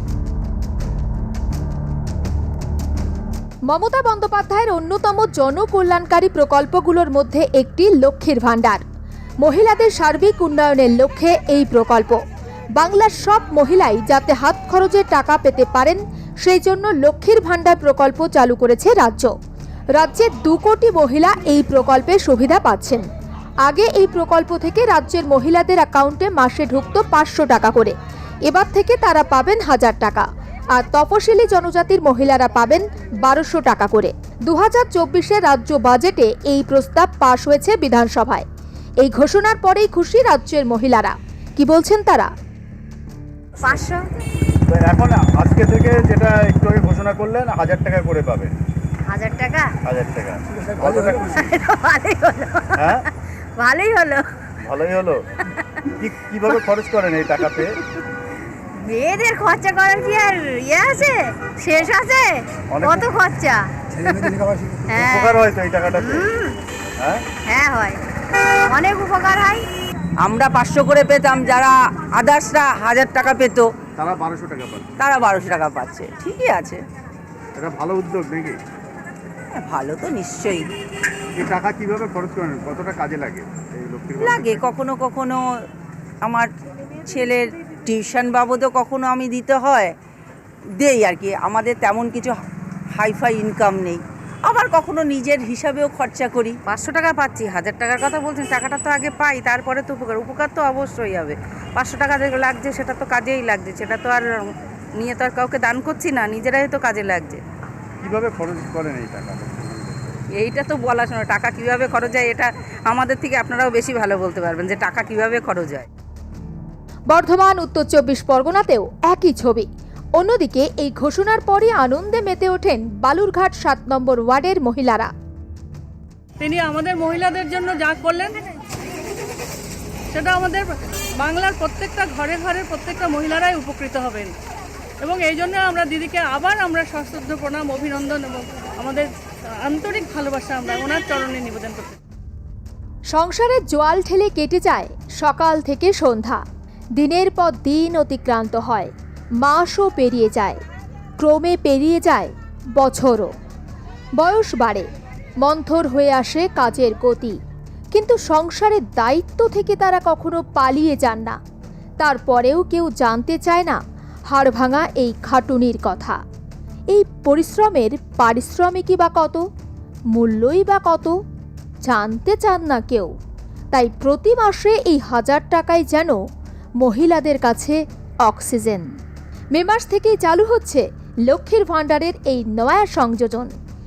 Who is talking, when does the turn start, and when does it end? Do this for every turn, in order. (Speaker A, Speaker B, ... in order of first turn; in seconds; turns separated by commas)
Speaker A: 3.7-8.8, Speaker A: 9.4-12.2, Speaker A: 12.8-19.3, Speaker A: 19.9-23.1, Speaker A: 23.7-27.9, Speaker A: 28.5-30.2, Speaker A: 30.8-38.5, Speaker A: 39.0-42.3, Speaker B: 43.6-44.1, Speaker C: 44.7-48.5, Speaker B: 49.1-49.7, Speaker C: 49.9-51.6, Speaker B: 51.4-53.0, Speaker C: 52.8-53.1, Speaker B: 53.6-54.2, Speaker C: 54.6-55.2, Speaker C: 56.0-57.8, Speaker B: 58.9-64.4, Speaker C: 62.7-63.1, Speaker B: 64.9-65.4, Speaker C: 64.9-66.5, Speaker B: 65.9-66.5, Speaker B: 67.5-68.0, Speaker B: 68.7-69.7, Speaker D: 70.2-73.8, Speaker C: 74.0-74.9, Speaker D: 75.0-76.8, Speaker C: 77.6-78.6, Speaker D: 79.5-80.7, Speaker C: 81.4-84.7, Speaker D: 84.2-85.4, Speaker D: 86.2-86.5, Speaker D: 87.1-90.0, Speaker D: 90.8-92.4, Speaker D: 92.9-96.6, Speaker E: 96.7-107.4, Speaker C: 108.0-110.2, Speaker E: 110.3-115.9, Speaker A: 117.1-119.7, Speaker A: 120.2-125.1, Speaker F: 126.4-128.3, Speaker F: 130.1-130.7, Speaker F: 131.2-134.3, Speaker F: 135.0-139.1, Speaker F: 139.7-142.0, Speaker A: 143.1-146.4, Speaker A: 147.0-148.9, Speaker A: 149.4-150.6, Speaker A: 151.2-153.3, Speaker A: 154.2-154.9, Speaker A: 155.4-157.4, Speaker A: 157.9-161.4, Speaker A: 162.0-163.8, Speaker A: 164.3-166.2, Speaker A: 166.9-169.4, Speaker A: 170.1-171.2, Speaker A: 171.8-173.1, Speaker A: 173.7-176.2, Speaker A: 176.8-178.9, Speaker A: 179.5-183.5